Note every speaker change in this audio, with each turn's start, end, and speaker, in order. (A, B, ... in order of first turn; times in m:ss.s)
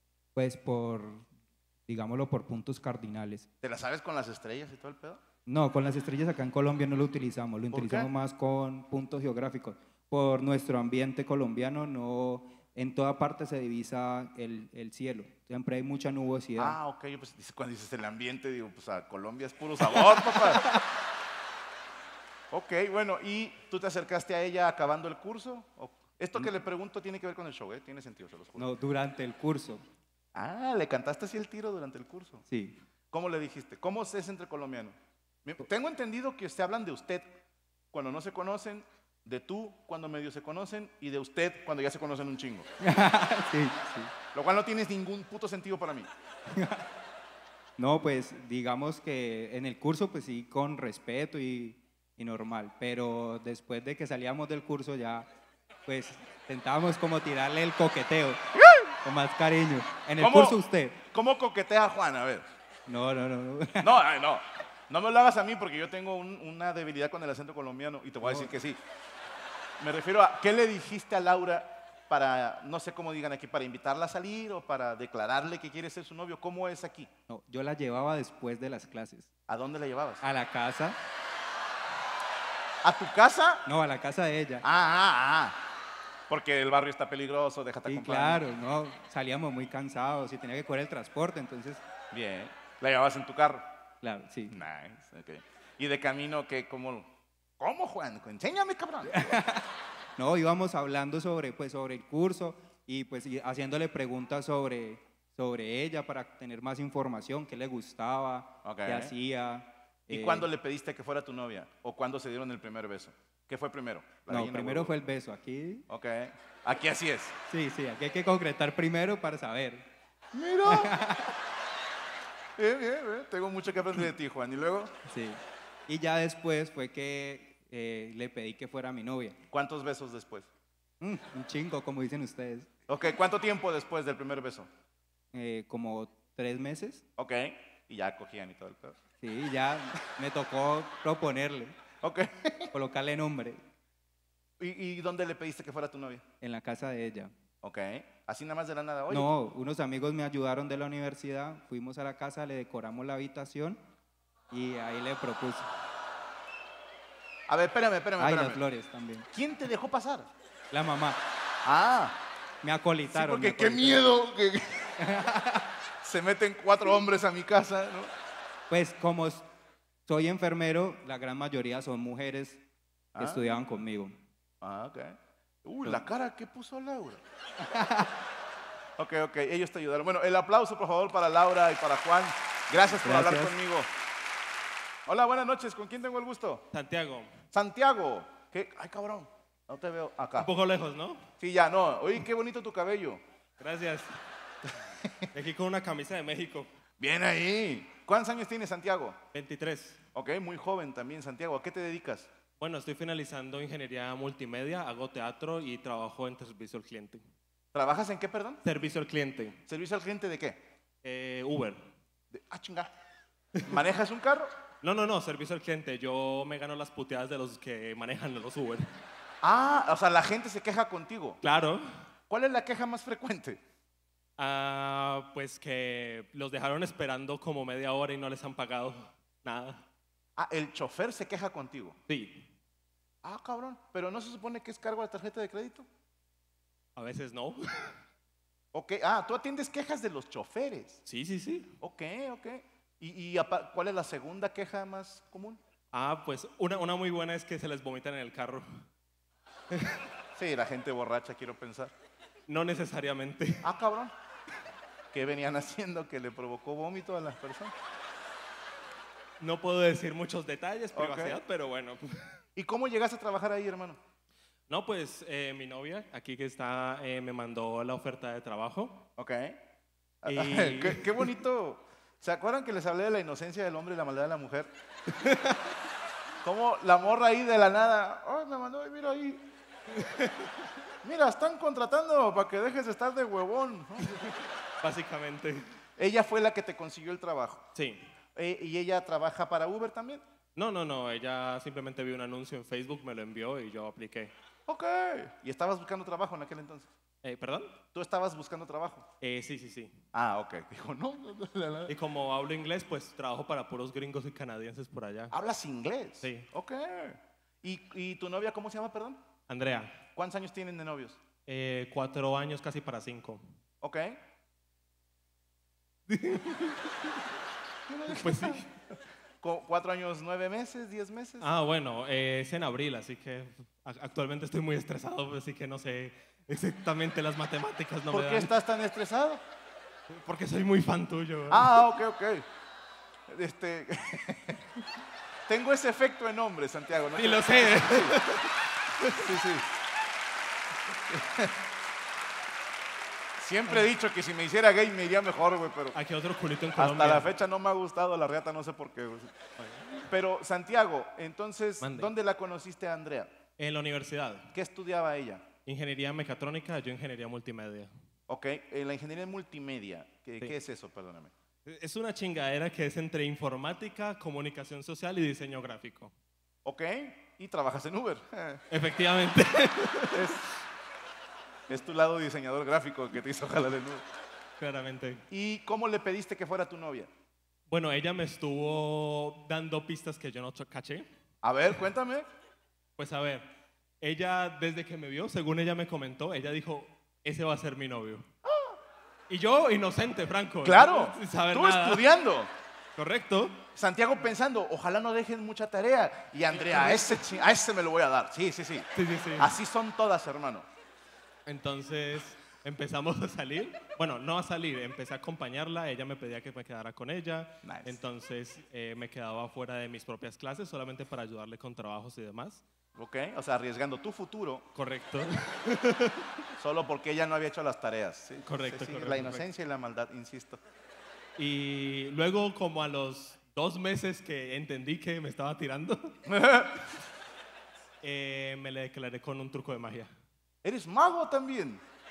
0:00.3-0:01.3 A
0:01.9-0:03.4 A
0:03.6-0:05.2 B
0:05.4-0:16.8 A
0:07.7-0:08.1 B
0:16.6-0:20.6 B
0:19.8-0:20.9 A
0:22.5-0:28.7 B
0:26.3-0:26.6 A
0:28.6-0:29.8 A
0:30.3-0:32.4 B
0:32.5-0:32.8 A
0:33.1-0:37.4 B
0:37.9-0:42.7 B
0:42.8-0:44.1 A
0:44.3-0:46.1 B
0:46.5-0:46.8 A
0:47.8-0:55.3 A
0:55.8-0:58.4 A
0:59.0-1:01.0 A
1:00.2-1:02.4 B
1:02.8-1:04.0 A
1:03.8-1:08.8 B
1:08.2-1:08.5 A
1:09.8-1:17.1 B
1:17.3-1:19.3 A
1:19.5-1:20.2 B
1:20.2-1:21.0 A
1:22.8-1:23.6 B
1:23.6-1:24.6 A
1:24.6-1:25.6 B
1:26.3-1:28.4 B
1:27.8-1:31.8 A
1:32.1-1:33.8 B
1:34.0-1:34.5 A
1:34.5-1:39.2 B
1:39.0-1:50.5 A
1:48.6-1:49.1 B
1:50.1-1:54.9 B
1:54.3-1:55.8 A
1:55.9-1:57.4 B
1:57.5-1:59.9 A
2:00.3-2:01.0 B
2:00.6-2:01.4 A
2:02.6-2:04.9 B
2:05.1-2:09.4 A
2:09.5-2:10.5 B
2:11.0-2:12.7 A
2:12.9-2:14.7 B
2:15.3-2:17.0 A
2:17.2-2:19.0 B
2:19.2-2:21.7 A
2:22.0-2:22.7 B
2:22.7-2:23.6 A
2:24.6-2:26.2 B
2:26.4-2:27.3 A
2:27.6-2:29.3 B
2:29.1-2:33.8 A
2:34.5-2:35.7 A
2:37.5-2:38.6 B
2:38.2-2:39.3 A
2:39.3-2:40.3 B
2:40.7-2:41.2 A
2:41.6-2:42.2 B
2:42.6-2:44.1 A
2:43.1-2:44.9 B
2:45.0-2:45.7 A
2:46.0-2:48.1 B
2:48.7-2:49.4 A
2:50.1-2:52.6 A
2:53.2-2:53.4 B
2:53.2-2:54.2 A
2:54.6-2:57.2 B
2:57.6-2:58.2 A
2:59.0-3:03.9 B
3:03.0-3:03.6 A
3:05.1-3:06.6 B
3:06.7-3:07.3 C
3:07.5-3:10.5 B
3:10.4-3:11.2 C
3:11.4-3:13.2 B
3:13.6-3:14.1 C
3:15.3-3:16.7 C
3:17.0-3:19.2 B
3:19.3-3:20.0 C
3:20.1-3:22.3 B
3:22.6-3:27.2 C
3:27.7-3:28.6 B
3:28.6-3:29.6 C
3:29.7-3:30.6 B
3:31.0-3:31.8 C
3:32.3-3:32.9 B
3:33.6-3:34.5 B
3:34.8-3:38.9 C
3:39.4-3:41.4 B
3:41.4-3:41.9 C
3:42.3-3:43.6 B
3:44.4-3:49.8 C
3:50.4-3:52.0 B
3:52.1-3:52.4 C
3:53.2-3:55.8 B
3:57.0-3:58.0 C
3:58.7-4:01.0 B
4:01.1-4:01.7 C
4:01.8-4:05.6 B
4:05.9-4:08.8 C
4:09.7-4:10.0 C
4:10.4-4:11.9 B
4:12.5-4:13.7 C
4:13.6-4:14.1 B
4:15.1-4:17.7 B
4:19.4-4:22.2 C
4:20.9-4:21.4 B
4:22.6-4:24.0 B
4:24.7-4:29.0 C
4:29.2-4:29.6 B
4:30.2-4:34.7 B
4:30.2-4:31.3 C
4:35.2-4:35.6 C
4:36.4-4:39.5 B
4:39.9-4:40.5 C
4:41.0-4:44.3 B
4:44.8-4:45.7 C
4:46.0-4:47.6 B
4:47.8-4:48.0 C
4:48.4-4:50.2 B
4:50.6-4:54.3 C
4:54.7-4:56.9 B
4:57.2-4:57.8 C
4:57.9-4:59.1 B
4:59.2-4:59.9 C
5:00.1-5:01.9 B
5:01.9-5:05.3 C
5:05.3-5:09.2 B
5:06.2-5:06.5 C
5:09.5-5:10.0 C
5:10.1-5:11.2 B
5:11.5-5:13.4 C
5:13.8-5:14.2 B
5:16.1-5:17.2 C
5:17.9-5:18.6 B
5:18.1-5:18.7 C
5:19.4-5:21.5 B
5:21.4-5:28.5 C
5:28.1-5:29.4 B
5:30.1-5:31.8 C
5:31.5-5:32.4 B
5:33.3-5:34.6 B
5:35.5-5:38.2 B
5:37.1-5:39.2 C
5:39.1-5:39.7 B
5:41.1-5:41.5 B
5:43.4-5:46.0 B
5:45.9-5:47.3 C
5:46.8-5:49.3 B
5:49.6-5:50.0 C
5:50.1-5:53.3 B
5:51.8-5:52.1 C
5:53.6-5:54.5 C
5:54.5-5:55.4 B
5:55.6-5:57.9 C
5:58.3-6:01.3 B
6:01.6-6:06.1 C
6:06.6-6:08.6 B
6:08.7-6:10.4 C
6:10.1-6:10.4 B
6:11.7-6:14.0 B
6:14.6-6:15.2 C
6:15.3-6:17.1 B
6:17.7-6:21.1 C
6:21.4-6:22.3 B
6:23.0-6:23.5 C
6:24.0-6:28.2 C
6:28.4-6:28.8 B
6:29.3-6:32.1 C
6:30.6-6:32.5 B
6:33.0-6:33.6 C
6:33.8-6:38.8 B
6:36.5-6:37.4 C
6:38.9-6:39.5 C
6:39.4-6:40.6 B
6:41.4-6:52.6 C
6:47.6-6:48.0 B
6:53.0-6:54.6 B
6:54.7-6:56.3 C
6:56.6-7:00.6 B
6:58.4-6:59.4 C
7:01.4-7:06.2 C
7:06.3-7:06.9 B
7:08.0-7:10.1 C
7:10.6-7:11.8 B